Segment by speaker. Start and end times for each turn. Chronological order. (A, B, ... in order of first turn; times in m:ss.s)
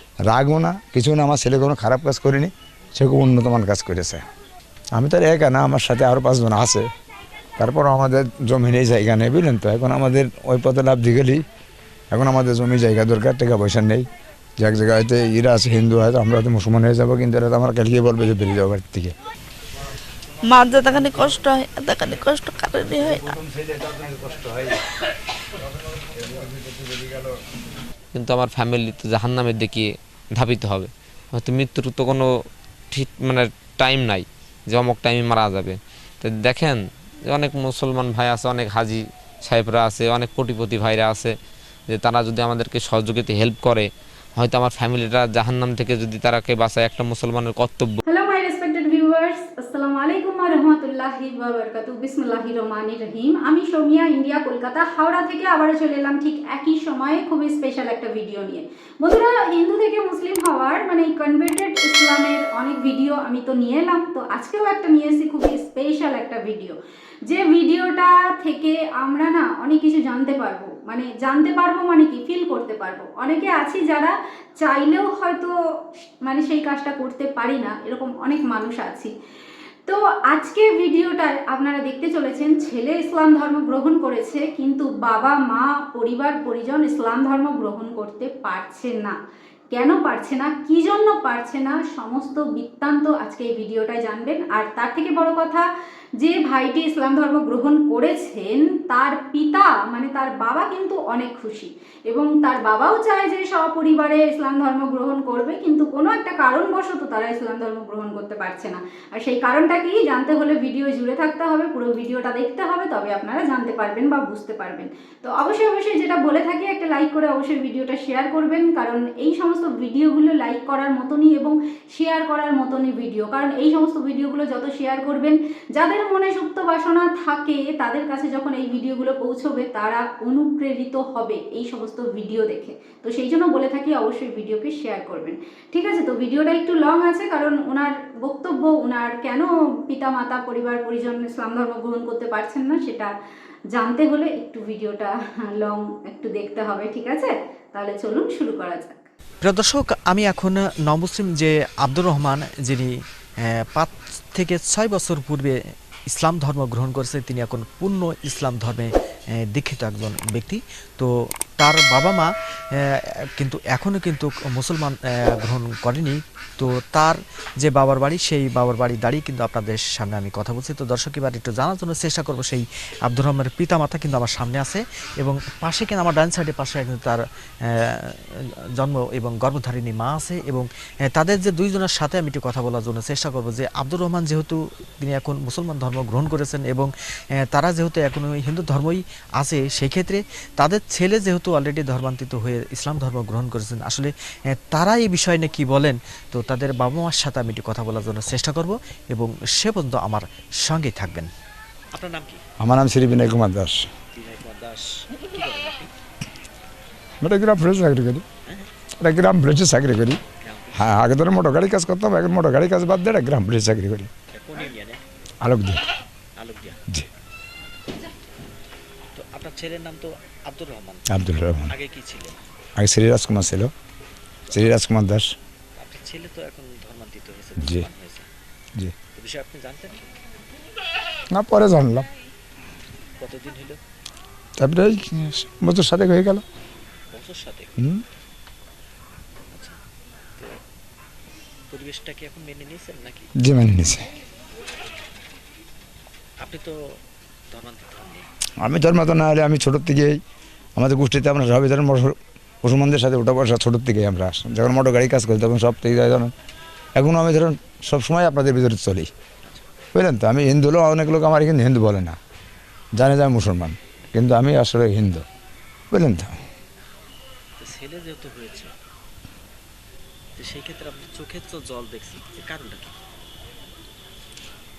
0:00.3-0:04.2 A
0:04.9-0:06.9 A
0:07.6-0:11.4 A
0:12.1-0:14.1 A
0:14.6-0:19.1 A
0:20.5-0:23.2 B
0:23.1-0:24.8 A
0:26.2-0:27.3 A
0:28.1-0:32.3 C
0:32.9-0:41.3 C
0:41.9-0:48.0 C
0:48.1-1:15.5 D
1:16.2-1:19.1 D
1:19.8-1:29.2 D
1:29.7-1:35.6 D
1:36.2-2:23.1 D
2:23.7-2:29.0 D
2:29.4-3:21.3 E
3:21.9-3:22.4 E
3:22.6-3:23.9 A
3:24.1-3:25.9 E
3:27.2-3:28.2 A
3:29.0-3:30.2 A
3:30.4-3:30.9 E
3:30.7-3:34.1 A
3:34.3-3:35.0 E
3:35.4-3:35.8 A
3:36.4-3:36.8 E
3:39.1-3:42.4 E
3:41.1-3:41.7 A
3:42.8-3:43.7 A
3:44.5-3:45.4 A
3:45.8-3:48.3 E
3:47.6-3:47.9 A
3:49.1-3:50.1 E
3:51.3-3:52.1 A
3:53.2-3:53.8 E
3:54.6-3:56.4 A
3:57.1-3:57.8 E
3:57.8-3:58.0 A
3:59.5-3:59.8 E
4:01.7-4:03.3 E
4:03.4-4:04.1 A
4:06.4-4:06.8 E
4:07.5-4:08.3 E
4:08.6-4:10.2 A
4:10.8-4:16.3 A
4:17.0-4:19.1 A
4:19.4-4:19.7 E
4:19.9-4:22.2 A
4:23.0-4:25.2 A
4:25.9-4:26.4 A
4:27.6-4:28.8 E
4:30.4-4:33.0 E